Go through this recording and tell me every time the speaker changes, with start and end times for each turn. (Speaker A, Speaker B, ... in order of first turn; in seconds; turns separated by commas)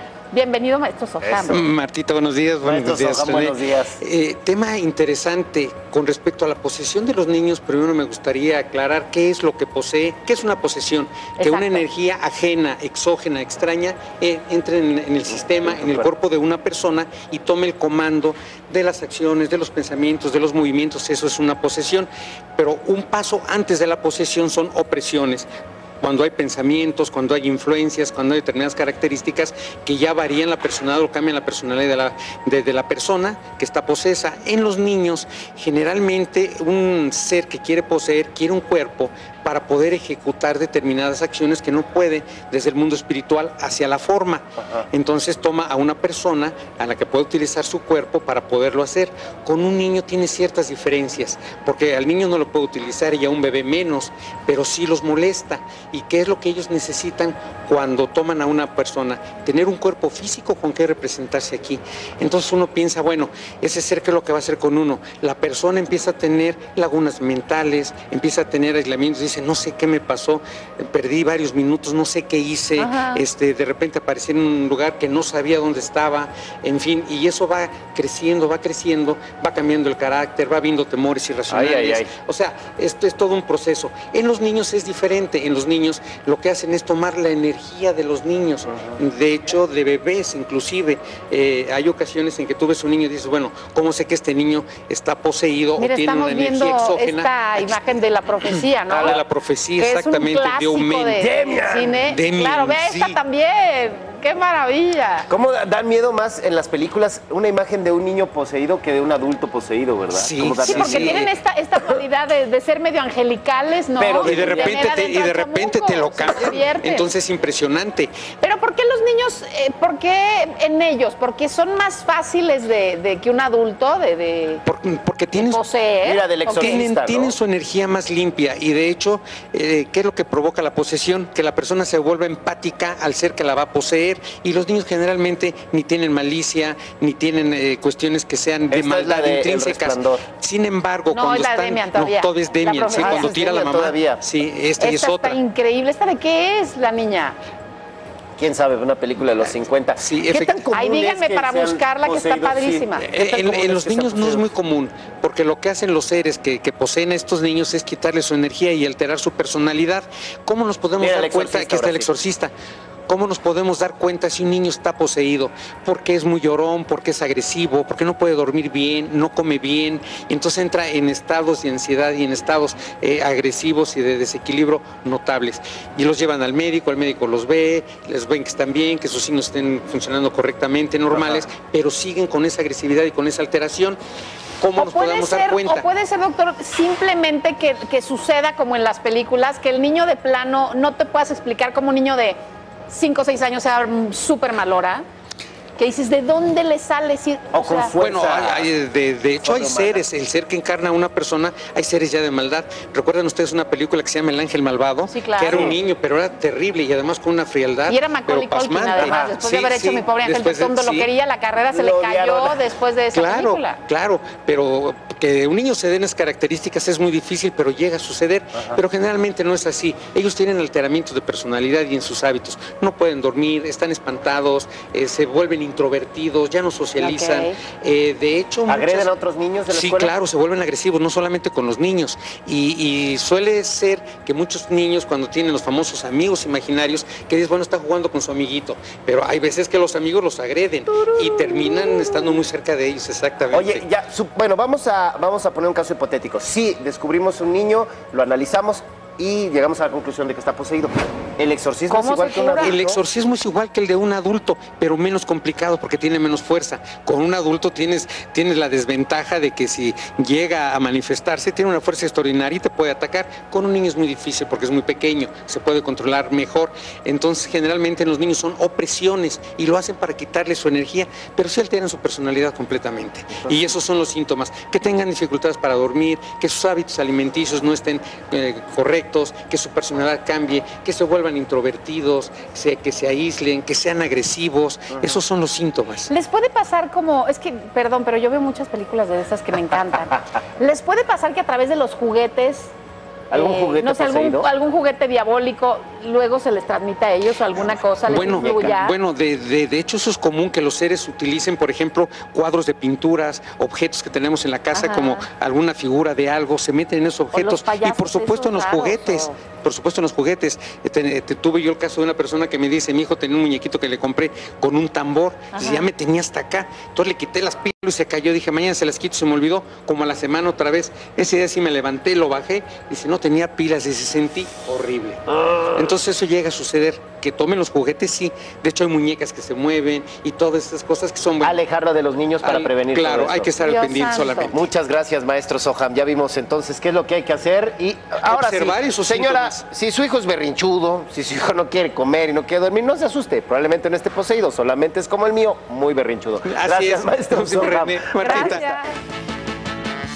Speaker A: 0.3-1.6, Speaker B: 1.2-1.6, Speaker C: 1.5-25.5, Speaker B: 2.6-4.0, Speaker A: 11.4-11.8, Speaker B: 15.5-16.1, Speaker C: 26.0-101.2, Speaker B: 44.6-44.9, Speaker A: 72.8-73.2, Speaker B: 81.5-82.1, Speaker A: 95.8-99.2, Speaker A: 99.8-105.3, Speaker B: 101.2-102.0, Speaker C: 102.0-103.2, Speaker B: 105.3-111.2, Speaker C: 110.1-111.3, Speaker A: 110.6-117.1, Speaker B: 114.0-114.8, Speaker C: 114.2-118.1, Speaker A: 118.4-124.6, Speaker C: 124.6-125.6, Speaker A: 125.3-126.8, Speaker B: 126.0-127.3, Speaker C: 126.5-145.4, Speaker B: 138.7-140.2, Speaker A: 141.1-143.3, Speaker B: 142.9-144.2, Speaker A: 144.8-147.3, Speaker B: 148.4-154.5, Speaker C: 150.0-150.6, Speaker A: 150.3-153.1, Speaker C: 153.0-162.5, Speaker B: 161.0-162.1, Speaker C: 163.1-184.0, Speaker B: 181.1-181.4, Speaker C: 184.6-185.8, Speaker A: 184.8-192.4, Speaker A: 192.9-195.0, Speaker A: 195.8-197.9, Speaker B: 197.5-198.7, Speaker C: 197.9-211.1, Speaker B: 199.4-200.0, Speaker A: 205.1-205.8, Speaker B: 205.5-205.8, Speaker A: 207.9-213.8, Speaker B: 211.7-212.6, Speaker C: 213.1-229.1, Speaker B: 218.5-218.8, Speaker A: 227.0-227.6, Speaker B: 228.7-230.1, Speaker C: 229.7-243.8, Speaker B: 243.5-253.0, Speaker A: 251.9-252.8, Speaker C: 252.6-286.1, Speaker A: 286.1-292.7, Speaker B: 293.3-294.5, Speaker A: 293.3-298.9, Speaker C: 298.1-331.6, Speaker B: 298.1-298.7, Speaker A: 304.7-305.2, Speaker A: 307.3-309.4, Speaker A: 315.5-315.9, Speaker B: 325.4-325.8, Speaker B: 331.4-333.5, Speaker C: 332.4-334.7, Speaker A: 333.6-334.5, Speaker B: 334.4-348.8, Speaker C: 338.2-339.6, Speaker C: 346.4-348.7, Speaker A: 348.2-348.9